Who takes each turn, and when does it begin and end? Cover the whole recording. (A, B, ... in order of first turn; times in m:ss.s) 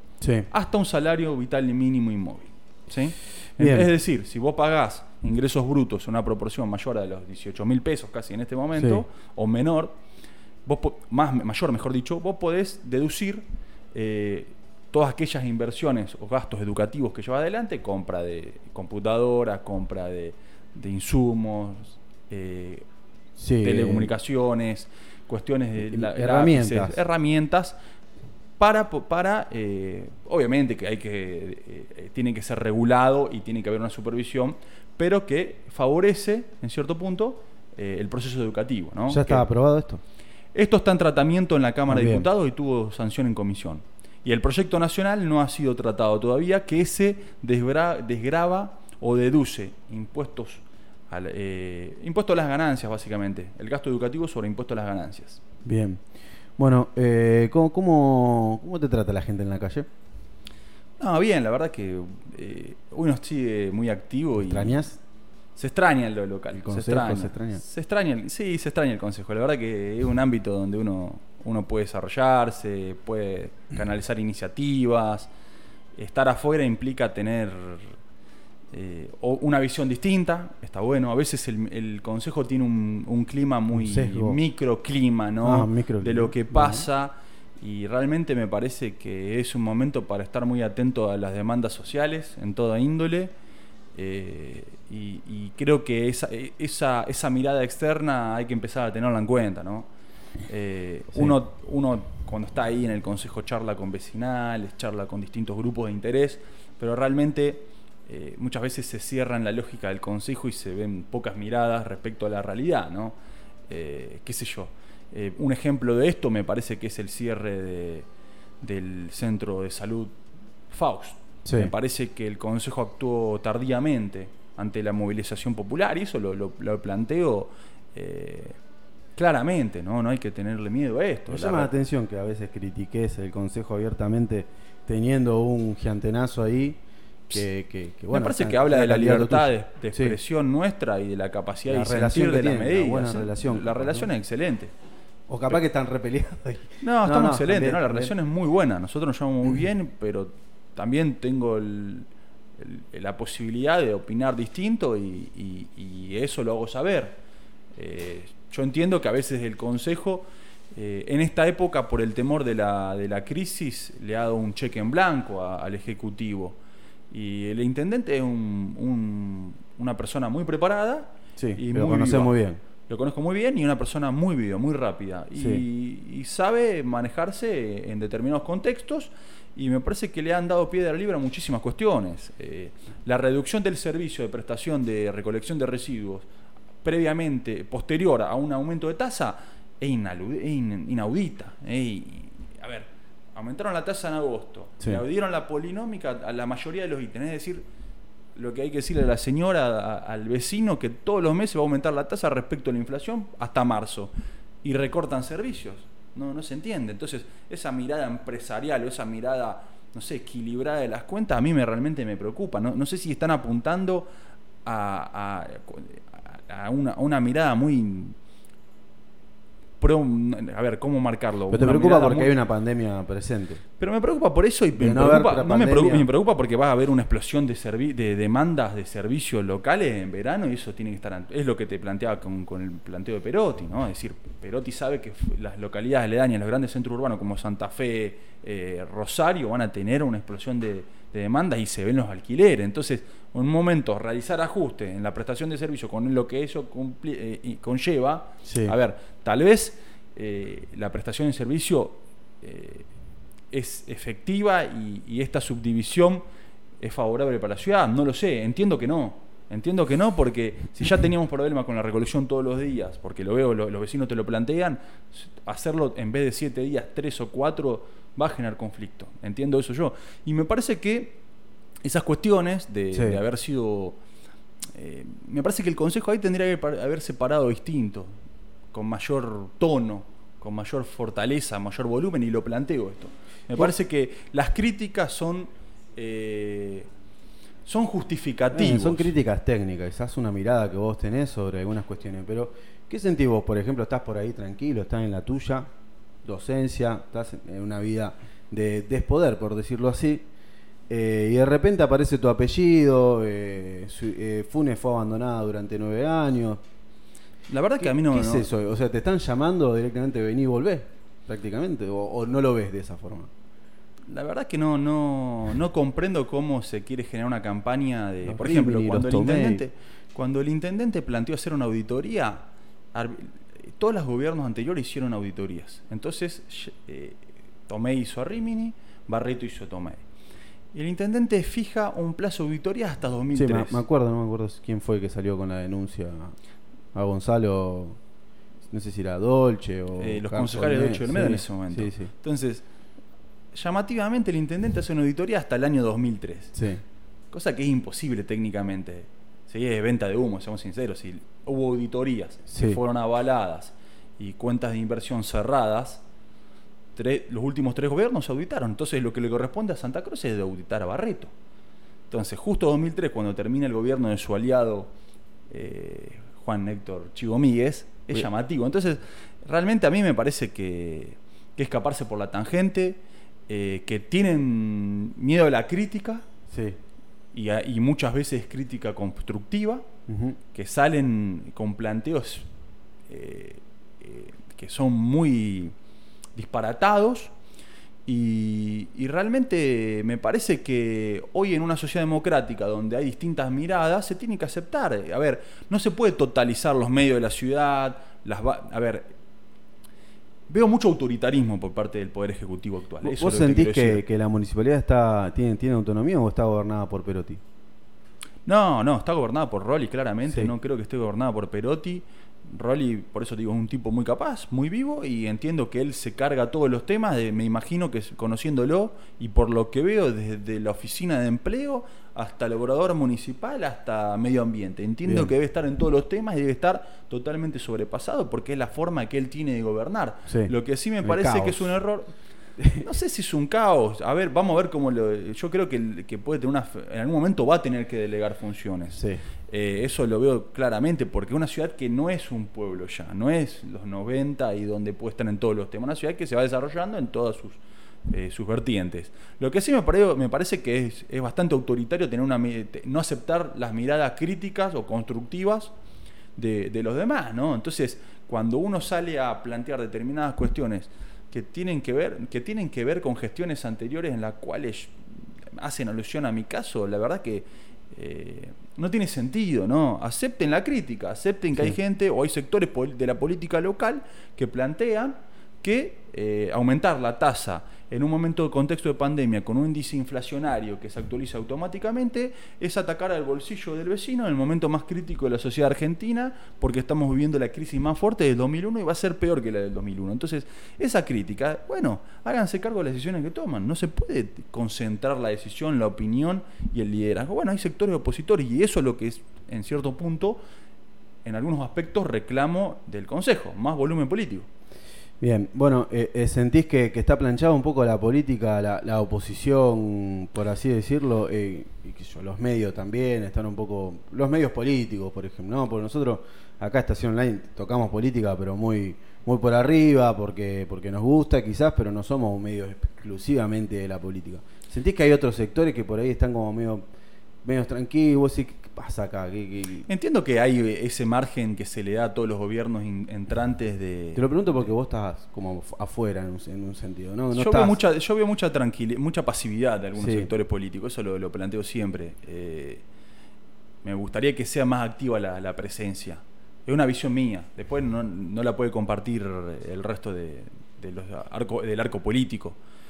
0:00.2-0:00.5 A
0:00.5-0:10.0 B
0:03.6-0:03.9 A
0:08.8-0:09.0 A
0:10.6-0:22.8 B
0:23.4-0:24.1 A
0:23.6-0:27.7 B
0:25.8-0:27.0 A
0:28.6-0:39.5 B
0:39.1-0:40.0 A
0:40.5-0:55.4 B
0:41.9-0:42.3 A
0:55.6-0:56.0 A
0:56.6-0:59.9 A
1:01.0-1:04.7 B
1:04.4-1:05.0 A
1:05.6-1:15.3 B
1:06.5-1:07.6 A
1:15.9-1:18.0 B
1:18.7-1:33.3 B
1:23.7-1:24.4 A
1:25.4-1:26.8 A
1:33.9-1:39.9 B
1:40.5-1:53.2 B
1:53.7-1:58.1 B
1:58.6-2:00.2 B
2:00.7-2:08.6 B
2:01.4-2:01.7 A
2:09.2-2:11.7 B
2:11.3-2:20.2 A
2:18.1-2:24.7 B
2:21.7-2:24.1 A
2:25.3-2:28.1 A
2:26.8-2:37.2 B
2:37.7-2:46.6 B
2:47.1-2:52.3 B
2:51.4-2:52.6 A
2:52.9-3:06.3 B
2:55.4-2:55.6 A
3:06.8-3:17.6 B
3:18.3-3:34.1 B
3:34.6-3:38.2 B
3:39.8-3:42.3 B
3:41.5-3:43.6 A
3:43.8-4:12.9 B
3:44.8-3:46.1 A
4:08.4-4:08.7 A
4:13.5-4:16.2 B
4:16.8-4:31.2 B
4:31.8-4:34.0 B
4:32.9-4:33.2 A
4:34.7-4:38.1 B
4:38.7-4:46.9 B
4:47.6-4:49.1 B
4:48.5-4:55.7 A
4:56.2-5:00.2 A
5:00.9-5:06.6 A
5:07.5-5:08.5 B
5:07.8-5:13.3 A
5:14.1-5:30.0 B
5:18.2-5:19.6 A
5:30.7-5:33.8 B
5:33.3-5:36.3 A
5:36.9-5:38.0 A
5:38.7-5:42.1 A
5:40.0-5:42.6 B
5:43.5-5:46.6 B
5:46.5-5:46.8 A
5:47.3-5:56.0 B
5:52.5-5:52.8 A
5:56.9-6:01.3 B
6:02.1-6:04.9 B
6:05.5-6:16.2 B
6:16.5-6:16.8 A
6:17.3-6:19.9 B
6:20.1-6:20.4 A
6:20.5-6:22.5 B
6:23.1-6:25.7 B
6:26.3-6:27.3 B
6:28.0-6:39.1 B
6:40.5-6:44.0 B
6:43.0-6:47.4 A
6:48.4-7:12.1 B
7:05.0-7:05.3 A
7:10.3-7:10.5 A
7:11.0-7:11.8 A
7:12.6-7:12.8 A
7:12.8-7:35.7 B
7:19.0-7:19.2 A
7:36.4-8:20.4 B
8:21.2-8:24.5 B
8:25.2-8:46.8 A
8:47.4-8:49.9 A
8:49.9-8:54.7 B
8:54.1-8:57.8 A
8:57.3-9:02.8 B
9:00.0-9:00.3 A
9:03.8-9:12.6 B